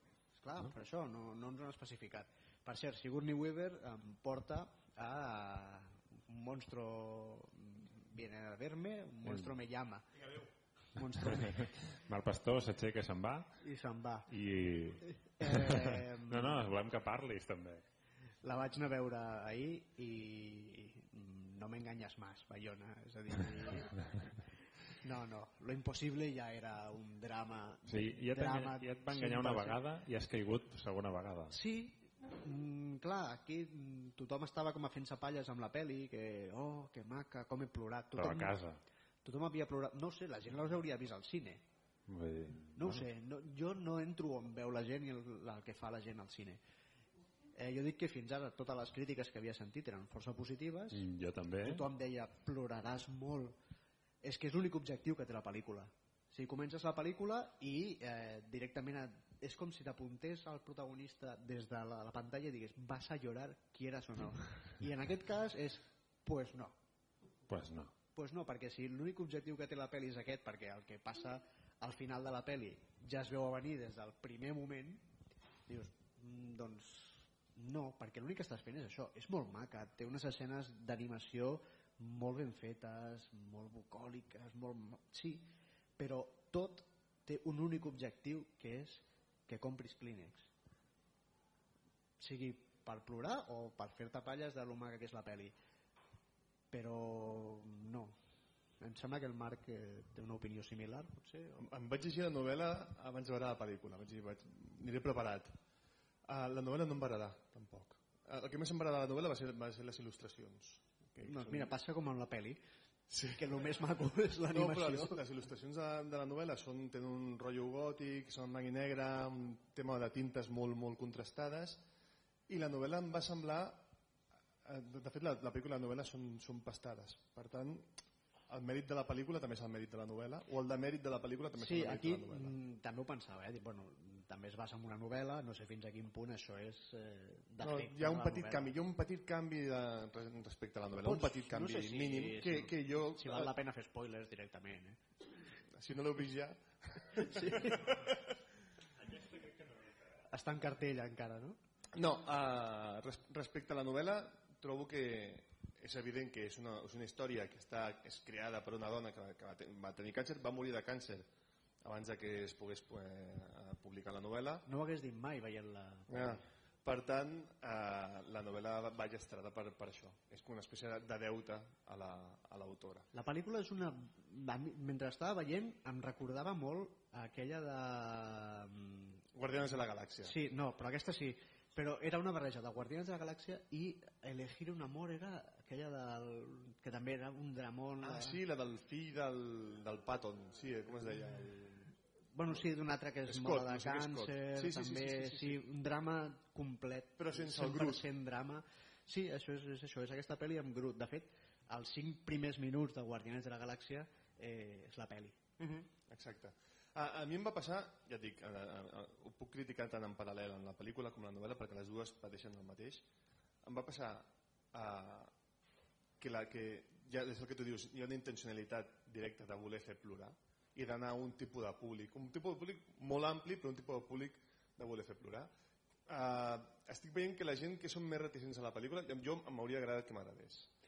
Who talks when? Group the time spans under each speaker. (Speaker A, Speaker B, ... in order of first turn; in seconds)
Speaker A: 0.4-10.1, 10.9-11.7, 13.6-14.3, 15.0-16.7, 18.4-24.3, 25.0-29.8, 31.5-38.5, 39.2-41.6, 42.8-46.6, 47.6-51.0, 51.6-53.6, 54.2-66.8, 68.2-75.0, 75.7-90.5, 92.2-95.5, 96.7-98.2, 98.8-101.7, 111.2-112.6, 113.3-115.2, 131.6-138.7, 141.0-145.0, 147.2-147.9, 150.3-151.6, 164.7-166.4, 173.1-179.2, 180.2-188.4, 192.3-205.4
Speaker B: 11.2-13.6, 14.3-17.8, 27.9-31.6, 38.2-38.8, 42.1-43.1, 50.9-51.9, 67.5-67.9
Speaker C: 101.6-105.6, 106.3-111.7, 113.1-113.5, 114.5-121.8, 122.5-123.9, 124.7-127.9, 128.5-132.5, 137.6-143.5, 145.8-148.3, 151.9-161.3, 161.8-164.7, 166.1-173.1, 179.3-180.3, 188.0-191.9, 193.3-195.7, 197.2-198.0, 205.6-213.0, 213.6-215.3, 216.2-225.5, 226.1-230.7